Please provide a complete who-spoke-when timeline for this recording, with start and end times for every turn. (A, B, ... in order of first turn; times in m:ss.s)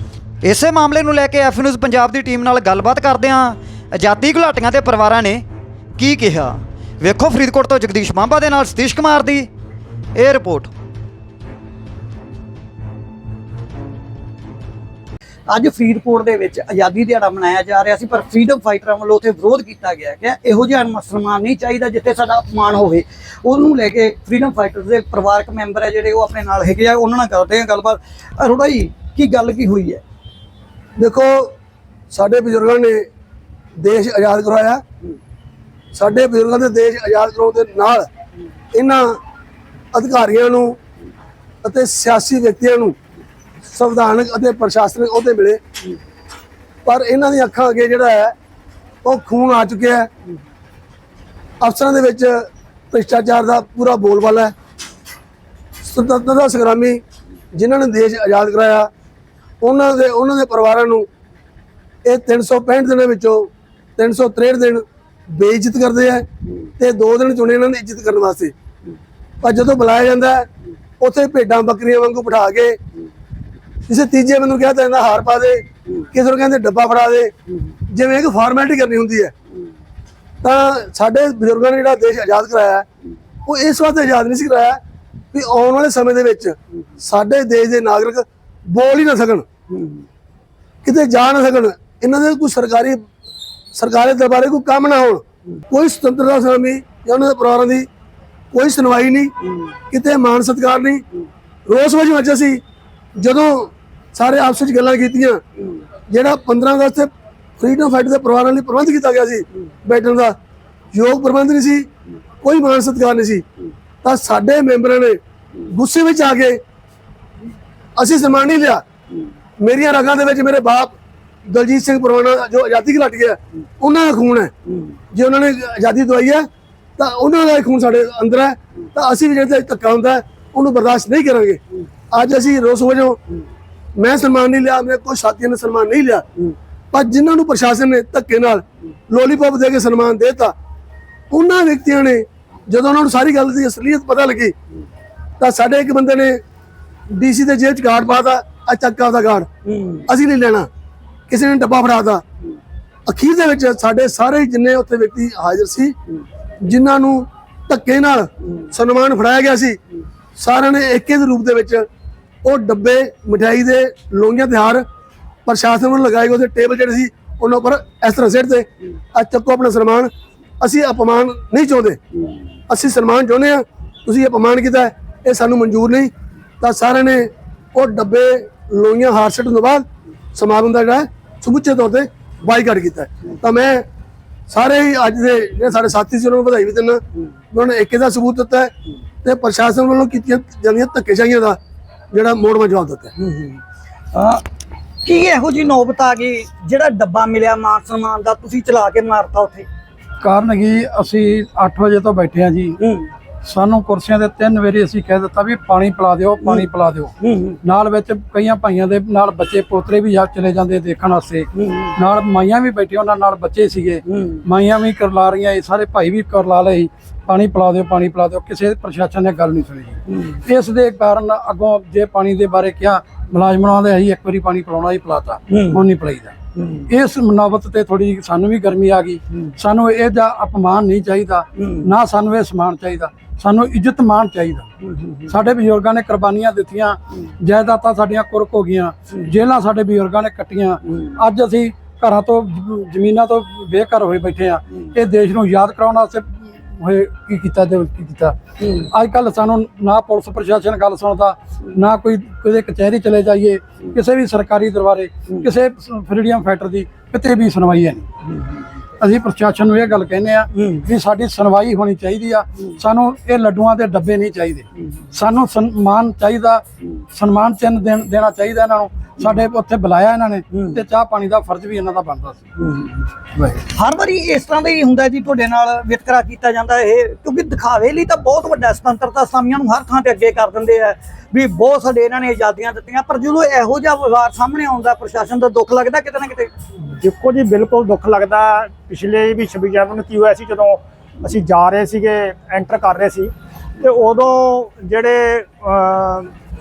0:00.4-0:05.4 A
0:06.0-0:09.5 A
0:10.2-0:10.7 A
0:15.5-0:30.0 B
0:31.0-0:31.5 C
0:32.1-0:33.0 C
0:33.8-0:34.8 C
0:35.9-0:38.1 C
0:38.7-0:39.2 C
0:39.9-0:40.8 C
0:41.6-0:43.0 C
0:43.7-0:45.6 C
0:46.8-0:48.3 C
0:49.0-0:50.1 C
0:51.6-0:54.5 C
0:55.8-0:57.0 C
0:57.5-0:58.9 C
0:59.6-1:01.1 C
1:02.0-1:06.2 C
1:06.8-1:08.5 C
1:09.4-1:10.5 C
1:11.0-1:12.8 C
1:13.9-1:17.3 C
1:17.9-1:19.3 C
1:20.4-1:22.8 C
1:23.4-1:24.8 C
1:25.3-1:29.4 C
1:30.8-1:33.0 C
1:33.7-1:37.9 C
1:38.5-1:39.3 C
1:39.9-1:41.0 C
1:41.7-1:42.6 C
1:43.2-1:45.4 C
1:46.1-1:50.3 C
1:50.9-1:51.9 C
1:52.4-1:53.4 C
1:54.0-1:56.6 C
1:58.0-1:58.8 C
1:59.6-2:00.9 C
2:01.4-2:04.5 C
2:05.1-2:06.4 C
2:07.0-2:11.6 C
2:12.1-2:13.2 C
2:14.0-2:16.2 C
2:16.9-2:20.5 C
2:21.3-2:24.5 C
2:25.4-2:26.4 C
2:27.1-2:29.5 C
2:30.0-2:30.7 C
2:31.3-2:32.2 C
2:33.1-2:35.9 C
2:36.6-2:39.8 C
2:40.4-2:41.8 C
2:42.4-2:44.8 C
2:45.4-2:52.0 C
2:52.7-3:03.8 C
3:04.5-3:07.0 C
3:07.5-3:08.7 C
3:09.2-3:11.6 C
3:12.1-3:13.1 C
3:13.2-3:13.6 B
3:14.1-3:14.4 B
3:15.0-3:19.7 B
3:20.2-3:22.8 D
3:22.8-3:23.1 B
3:23.4-3:46.4 D
3:27.2-3:27.6 B
3:31.6-3:31.9 B
3:34.1-3:34.4 B
3:40.1-3:40.4 B
3:45.5-3:45.8 B
3:46.6-3:46.9 B
3:46.9-3:54.7 D
3:55.2-4:18.1 D
4:19.0-4:32.4 D
4:33.5-4:46.5 B
4:46.8-4:56.3 E